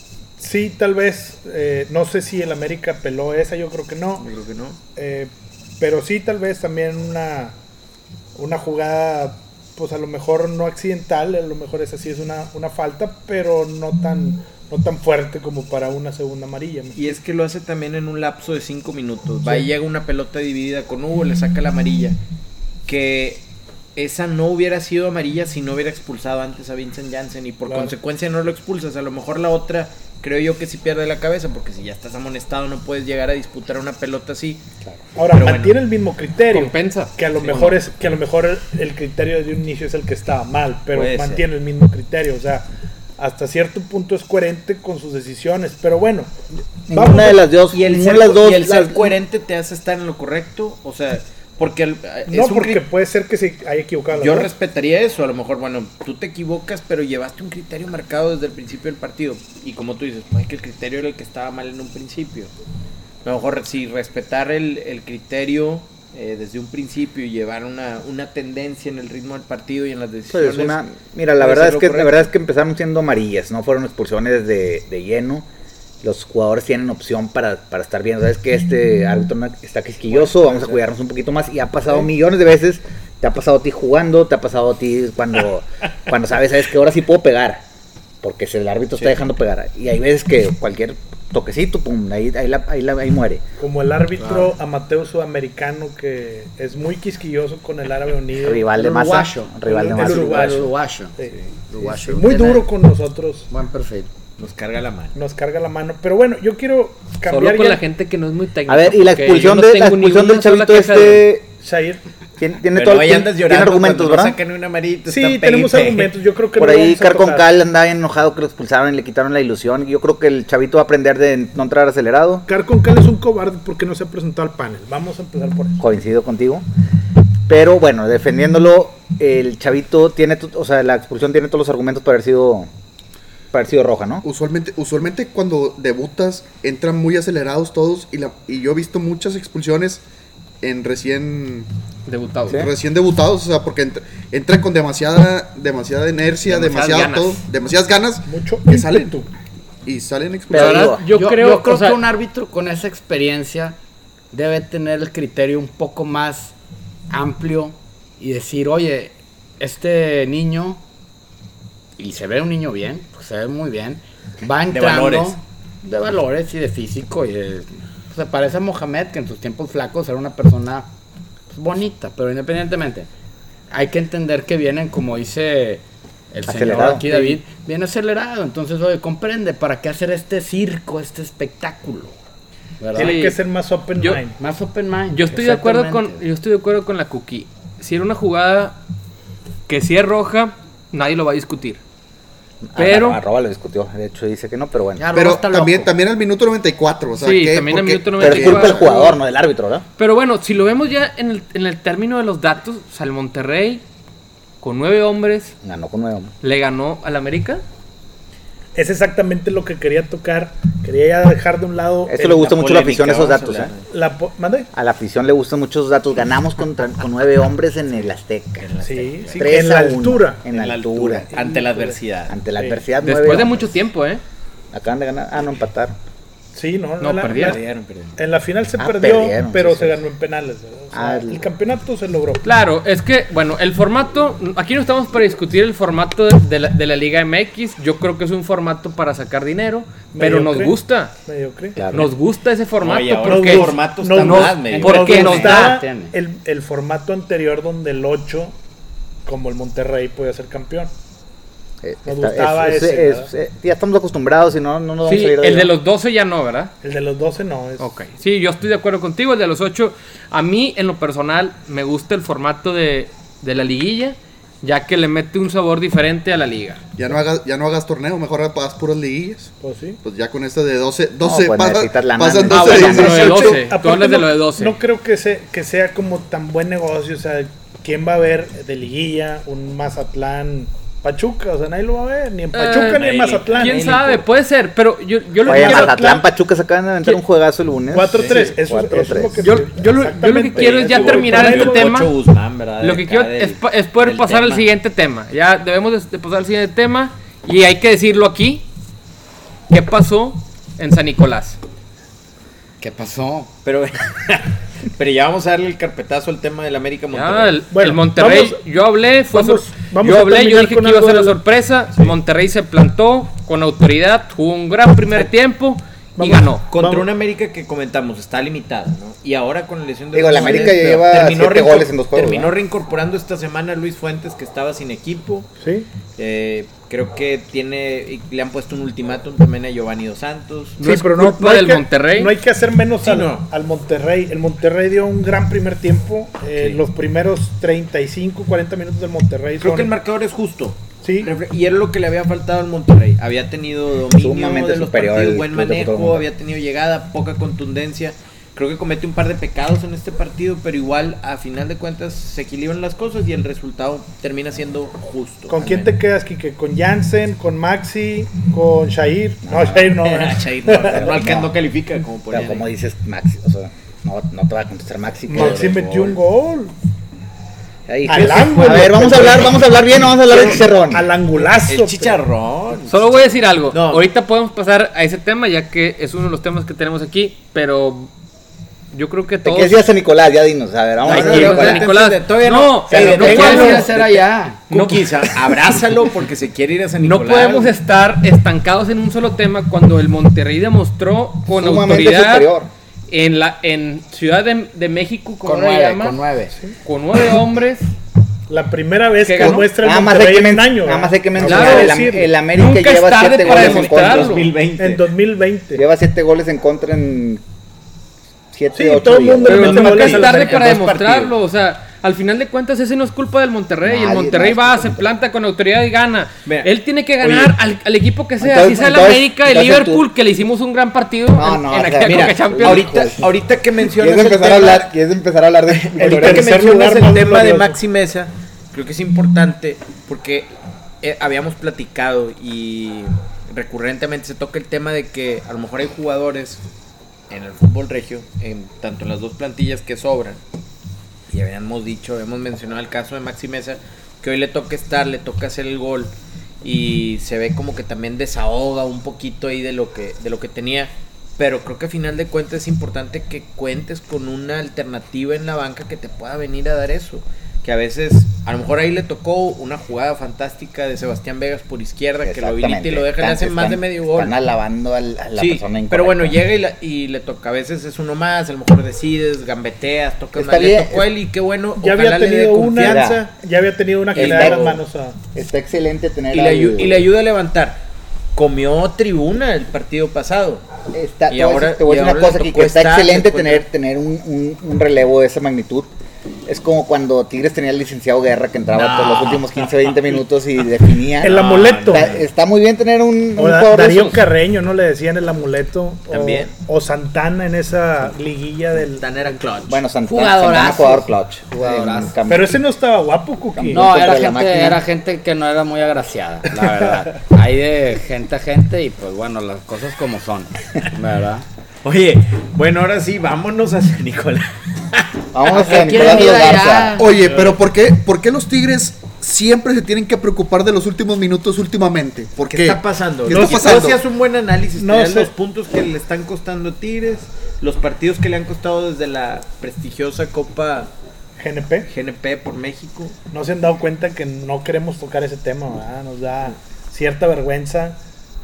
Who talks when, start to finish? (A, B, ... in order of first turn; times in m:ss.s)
0:00.4-0:04.2 A
0:04.2-0:04.8 B
0:05.0-0:07.6 A
0:08.4-0:17.1 A
0:17.0-0:22.2 B
0:22.9-0:35.8 B
0:35.2-0:42.7 A
0:36.5-0:37.5 C
0:37.4-0:37.8 B
0:40.9-0:41.4 B
0:43.2-0:46.3 A
0:46.9-0:49.2 D
0:46.9-0:47.5 A
0:47.7-0:52.8 B
0:52.3-0:54.5 A
0:54.1-1:02.5 B
1:03.2-1:10.8 B
1:10.3-1:15.5 D
1:11.4-1:12.3 B
1:16.0-1:27.6 D
1:20.0-1:20.8 B
1:28.2-1:33.4 D
1:29.0-1:29.2 B
1:33.6-1:38.7 A
1:34.2-1:34.5 B
1:38.4-1:40.6 D
1:38.7-1:42.7 E
1:39.6-1:43.5 A
1:43.5-1:44.1 E
1:44.4-1:45.2 B
1:45.1-1:47.8 A
1:47.3-1:51.3 C
1:48.7-1:51.5 D
1:51.6-1:52.0 A
1:52.4-1:54.4 D
1:52.8-1:56.1 B
1:55.1-1:57.5 A
1:56.6-2:02.5 D
2:02.5-2:05.8 A
2:05.8-2:06.6 D
2:07.5-2:12.7 D
2:13.5-2:14.2 D
2:14.2-2:20.0 F
2:20.6-2:21.7 F
2:22.1-2:22.7 C
2:22.5-2:29.2 F
2:26.5-2:27.4 C
2:28.3-2:29.3 A
2:29.8-2:30.9 F
2:30.5-2:31.0 D
2:30.5-2:32.0 C
2:31.1-2:33.8 E
2:34.3-2:36.5 E
2:37.1-2:40.8 E
2:42.0-2:50.9 E
2:44.7-2:45.4 B
2:51.5-2:53.1 E
2:53.7-3:02.2 E
2:56.5-2:57.4 D
3:02.8-3:03.2 E
3:02.9-3:04.4 A
3:03.0-3:03.4 C
3:04.4-3:06.2 E
3:05.1-3:08.8 C
3:09.7-3:11.8 C
3:12.7-3:15.1 D
3:12.8-3:13.2 C
3:15.0-3:15.9 E
3:15.1-3:18.9 F
3:17.2-3:19.2 C
3:18.2-3:19.9 D
3:20.0-3:23.8 C
3:24.6-3:25.5 C
3:25.6-3:26.3 D
3:26.4-3:27.6 C
3:28.8-3:32.6 A
3:32.1-3:33.7 D
3:32.5-3:33.9 B
3:33.9-3:34.7 A
3:34.7-3:38.7 D
3:38.0-3:39.6 B
3:38.8-3:40.4 A
3:39.4-3:41.3 D
3:40.5-3:42.8 B
3:41.3-3:42.0 A
3:42.3-3:43.8 D
3:43.0-3:44.2 C
3:44.7-3:46.0 D
3:46.5-3:47.6 A
3:47.0-3:47.6 C
3:47.3-3:48.2 B
3:48.2-3:52.4 A
3:48.8-3:50.0 D
3:50.9-3:51.4 D
3:52.4-4:01.1 C
4:00.1-4:00.8 A
4:01.3-4:01.8 A
4:01.8-4:02.1 D
4:01.9-4:05.8 C
4:02.8-4:05.6 B
4:03.2-4:08.6 A
4:04.7-4:06.1 E
4:09.3-4:10.9 A
4:11.8-4:15.7 D
4:12.0-4:13.3 A
4:15.0-4:16.7 C
4:16.8-4:18.0 A
4:17.8-4:26.8 C
4:27.0-4:29.5 F
4:29.6-4:30.0 A
4:30.0-4:33.6 F
4:31.2-4:33.6 D
4:32.5-4:34.8 C
4:33.1-4:44.0 A
4:42.5-4:46.0 C
4:42.6-4:44.3 B
4:45.4-4:46.3 A
4:45.5-4:49.4 D
4:47.9-4:51.9 A
4:48.2-4:48.5 B
4:49.4-4:52.1 C
4:50.6-4:54.6 B
4:52.8-4:58.7 C
4:59.7-5:01.6 C
5:02.8-5:03.5 E
5:03.6-5:07.6 B
5:07.1-5:16.6 C
5:07.7-5:08.6 A
5:09.3-5:11.4 A
5:16.2-5:17.1 A
5:16.7-5:25.5 B
5:20.1-5:22.5 D
5:20.4-5:20.9 A
5:25.6-5:25.9 A
5:26.2-5:30.8 B
5:30.8-5:32.4 C
5:30.8-5:39.9 A
5:33.0-5:33.5 B
5:36.6-5:36.8 B
5:39.6-5:56.0 B
5:41.0-5:41.3 A
5:44.2-5:46.2 D
5:55.5-6:01.4 A
5:59.4-6:00.0 D
6:00.0-6:02.7 B
6:00.9-6:01.5 D
6:02.3-6:05.8 D
6:05.3-6:06.7 A
6:05.3-6:06.2 B
6:07.9-6:11.1 D
6:08.1-6:09.5 A
6:08.1-6:09.8 B
6:10.3-6:12.2 A
6:11.3-6:14.0 B
6:12.9-6:18.1 C
6:18.9-6:19.9 C
6:19.4-6:21.9 D
6:21.0-6:27.7 B
6:21.1-6:24.0 C
6:22.9-6:23.8 D
6:23.0-6:23.6 A
6:23.1-6:24.6 E
6:24.7-6:25.5 C
6:27.0-6:32.5 C
6:31.5-6:32.7 D
6:33.1-6:36.2 C
6:35.4-6:36.6 E
6:36.8-6:37.9 C
6:38.5-6:42.3 A
6:39.2-6:39.7 C
6:39.6-6:44.4 D
6:41.4-6:44.5 C
6:43.4-6:45.0 B
6:44.8-6:45.8 A
6:45.7-6:47.4 D
6:48.5-6:49.7 D
6:48.8-6:50.6 A
6:49.5-6:51.4 B
6:49.5-7:03.1 C
6:53.8-6:55.1 D
6:56.4-6:56.7 B
6:57.2-6:57.6 B
6:58.4-7:00.1 D
7:01.3-7:03.3 D
7:02.0-7:04.9 B
7:03.8-7:06.6 D
7:05.8-7:16.6 B
7:06.0-7:07.8 A
7:17.3-7:20.4 B
7:21.3-7:44.4 B
7:42.2-7:46.4 D
7:45.4-7:53.1 B
7:50.4-7:51.1 D
7:51.8-7:55.2 A
7:52.7-7:53.2 D
7:54.1-7:54.8 B
7:54.2-7:54.8 D
7:55.4-7:57.0 D
7:56.3-7:57.8 B
7:58.4-8:00.6 B
8:00.9-8:05.9 D
8:01.3-8:03.7 B
8:06.5-8:14.2 D
8:08.7-8:10.2 B
8:11.2-8:12.2 A
8:11.2-8:12.2 B
8:13.4-8:19.0 A
8:16.1-8:16.5 B
8:18.8-8:19.8 B
8:19.7-8:22.6 D
8:20.0-8:22.2 E
8:22.3-8:23.9 A
8:23.6-8:24.8 D
8:23.7-8:31.5 E
8:31.8-8:36.3 B
8:35.3-8:37.0 D
8:35.5-8:37.1 E
8:37.0-8:44.0 F
8:37.2-8:37.5 B
8:42.4-8:50.9 B
8:43.3-8:44.0 A
8:44.8-8:45.3 A
8:51.4-8:51.9 A
8:51.9-8:53.2 B
8:53.3-8:58.0 A